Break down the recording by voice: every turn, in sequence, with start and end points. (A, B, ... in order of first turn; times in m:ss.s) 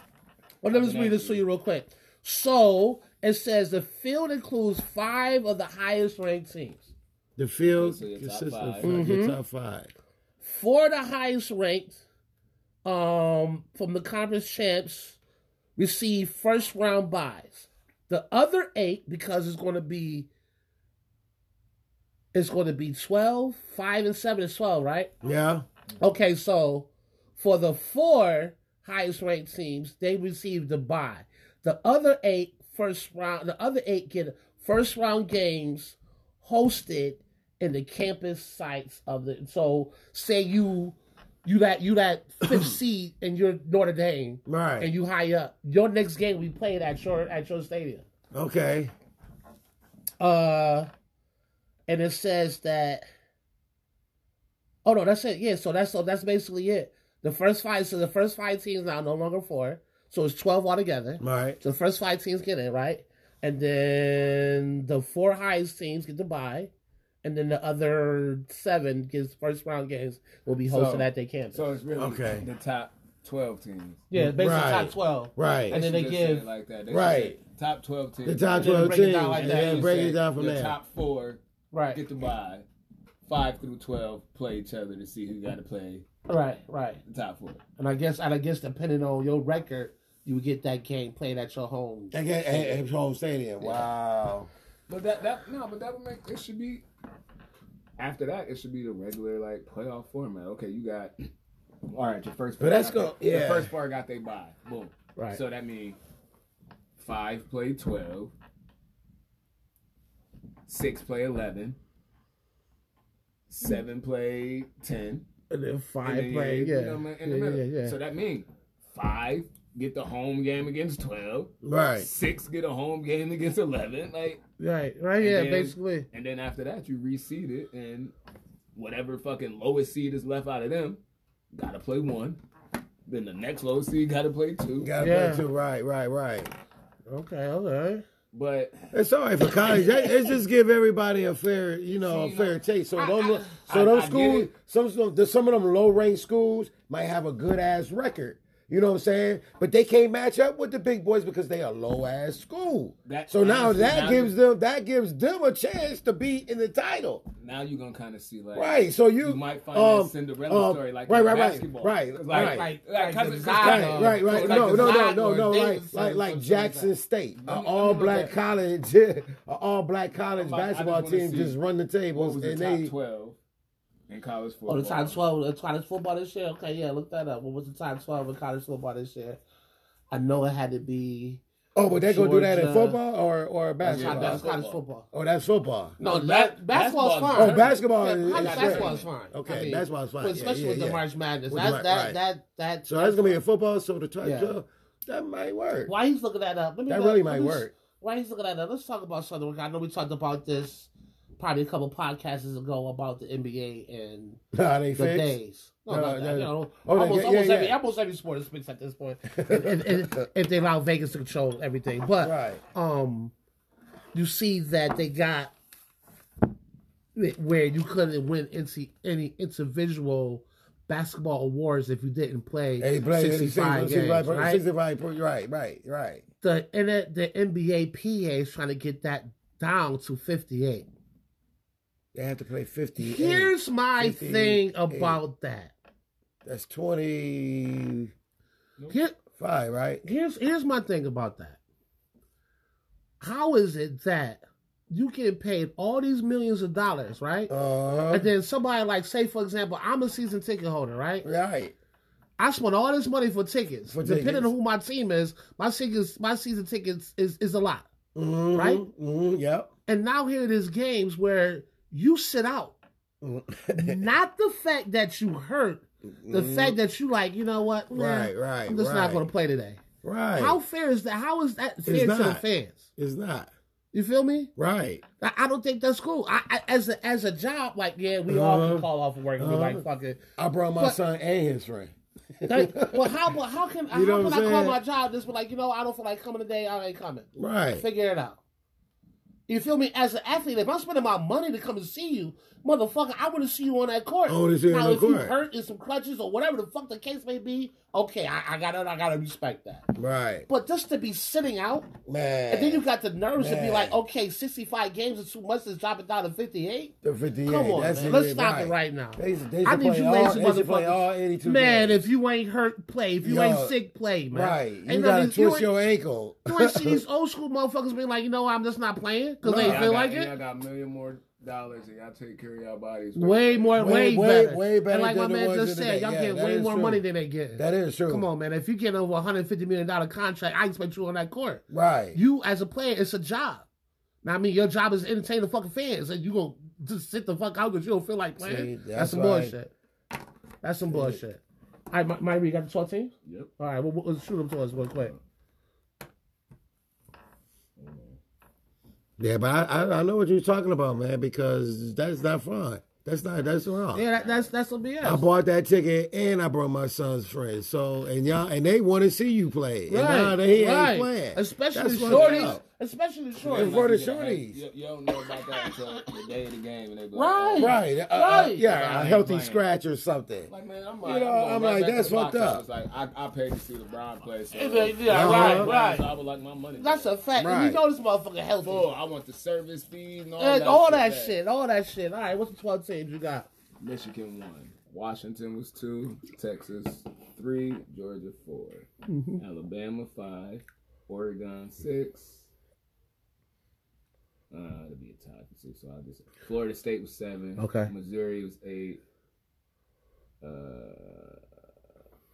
0:00.6-0:06.9 A
0:00.7-0:01.4 B
0:07.4-0:09.9 C
0:07.6-0:09.0 B
0:08.8-0:09.4 A
0:10.4-0:12.0 A
0:12.8-0:15.2 A
0:15.8-0:20.3 A
0:22.3-0:25.1 A
0:25.2-0:25.6 C
0:26.0-0:48.0 A
0:42.4-0:42.8 C
0:44.4-0:44.9 C
0:48.3-0:48.9 C
0:50.2-0:50.9 A
0:51.9-0:53.0 A
0:54.8-1:06.7 A
1:01.2-1:01.6 C
1:07.2-1:11.6 A
1:10.7-1:14.0 B
1:12.0-1:12.4 C
1:14.1-1:16.4 A
1:14.1-1:15.8 C
1:15.7-1:21.4 B
1:16.9-1:17.4 C
1:18.2-1:20.8 C
1:18.5-1:19.9 A
1:21.7-1:22.0 A
1:21.9-1:22.6 B
1:23.2-1:26.0 B
1:26.3-1:27.0 A
1:27.0-1:27.6 B
1:27.8-1:32.2 A
1:32.1-1:34.5 C
1:34.9-1:36.8 B
1:38.0-1:41.1 B
1:41.9-1:46.0 B
1:42.6-1:43.7 C
1:47.0-1:48.3 B
1:50.7-1:51.8 B
1:53.5-1:55.3 B
1:55.5-1:58.0 A
1:56.0-2:04.4 B
2:01.6-2:02.1 C
2:04.6-2:06.0 A
2:05.2-2:08.1 B
2:08.7-2:11.0 B
2:11.5-2:12.4 B
2:13.1-2:14.9 B
2:14.8-2:16.5 C
2:15.0-2:15.4 A
2:17.1-2:18.0 A
2:18.3-2:20.4 B
2:18.9-2:37.2 C
2:21.9-2:24.5 B
2:33.0-2:34.3 B
2:37.4-2:45.3 B
2:38.5-2:42.7 C
2:42.3-2:46.9 A
2:43.6-2:52.9 C
2:47.4-2:48.3 B
2:50.4-2:51.6 B
2:52.1-2:53.4 B
2:54.1-2:55.2 B
2:54.7-2:59.4 A
3:00.1-3:01.4 A
3:01.7-3:04.4 C
3:02.0-3:03.0 A
3:03.8-3:05.1 A
3:03.8-3:04.8 B
3:05.1-3:06.0 C
3:06.0-3:13.4 A
3:06.0-3:09.1 B
3:07.3-3:12.2 C
3:12.9-3:15.9 C
3:14.2-3:14.6 A
3:15.8-3:24.4 A
3:16.9-3:17.7 C
3:24.5-3:25.4 C
3:24.9-3:33.3 A
3:25.9-3:27.8 C
3:29.3-3:30.2 C
3:32.2-3:32.6 C
3:34.1-3:35.5 A
3:37.1-3:44.6 A
3:42.8-3:46.2 C
3:46.4-3:50.9 A
3:52.1-3:55.2 C
3:53.0-3:55.7 A
3:56.4-3:58.1 C
3:58.9-3:59.2 A
3:59.3-4:00.0 C
4:00.0-4:01.6 A
4:03.2-4:07.5 A
4:07.5-4:08.3 C
4:08.1-4:11.3 A
4:11.2-4:11.7 C
4:12.4-4:17.9 A
4:13.9-4:14.5 C
4:18.1-4:19.7 C
4:18.5-4:18.8 A
4:19.9-4:22.8 A
4:23.2-4:24.0 C
4:23.7-4:29.8 A
4:26.2-4:26.8 C
4:27.9-4:29.2 C
4:30.0-4:30.6 C
4:30.4-4:32.9 A
4:31.8-4:32.4 C
4:33.0-4:33.5 C
4:33.9-4:34.5 A
4:34.6-4:35.0 C
4:35.2-4:40.2 A
4:38.3-4:38.9 C
4:39.4-4:39.8 C
4:40.4-4:43.3 C
4:42.4-4:47.3 A
4:43.9-4:44.8 C
4:47.4-4:47.8 C
4:47.8-4:48.4 A
4:49.5-4:59.8 A
4:54.3-4:55.3 C
5:00.0-5:00.5 C
5:00.5-5:01.9 A
5:02.0-5:02.8 C
5:02.5-5:06.9 A
5:03.4-5:04.0 C
5:07.0-5:12.0 C
5:07.4-5:15.7 A
5:13.2-5:13.7 C
5:14.3-5:17.0 C
5:16.4-5:20.3 A
5:19.4-5:19.9 C
5:19.6-5:23.8 B
5:23.2-5:33.6 A
5:23.8-5:27.0 C
5:27.6-5:28.2 C
5:31.7-5:32.2 C
5:34.2-5:39.7 A
5:38.4-5:39.5 C
5:40.6-5:45.1 A
5:40.9-5:41.2 C
5:43.2-5:43.5 B
5:47.8-5:48.2 B
5:49.2-5:54.0 C
5:53.9-5:55.2 A
5:54.2-5:54.5 B
5:55.0-6:02.6 C
5:59.9-6:03.8 A
6:02.0-6:02.6 B
6:03.4-6:07.8 B
6:03.4-6:04.6 C
6:07.1-6:08.6 A
6:07.6-6:10.5 C
6:08.5-6:09.6 B
6:10.5-6:17.1 B
6:11.0-6:12.6 C
6:14.5-6:16.0 A
6:15.0-6:15.7 C
6:16.8-6:18.9 A
6:17.4-6:17.8 C
6:18.6-6:21.4 B
6:20.4-6:23.5 A
6:23.8-6:32.5 B
6:29.1-6:29.4 A
6:34.5-6:39.0 B
6:37.6-6:37.9 A
6:40.4-6:41.4 B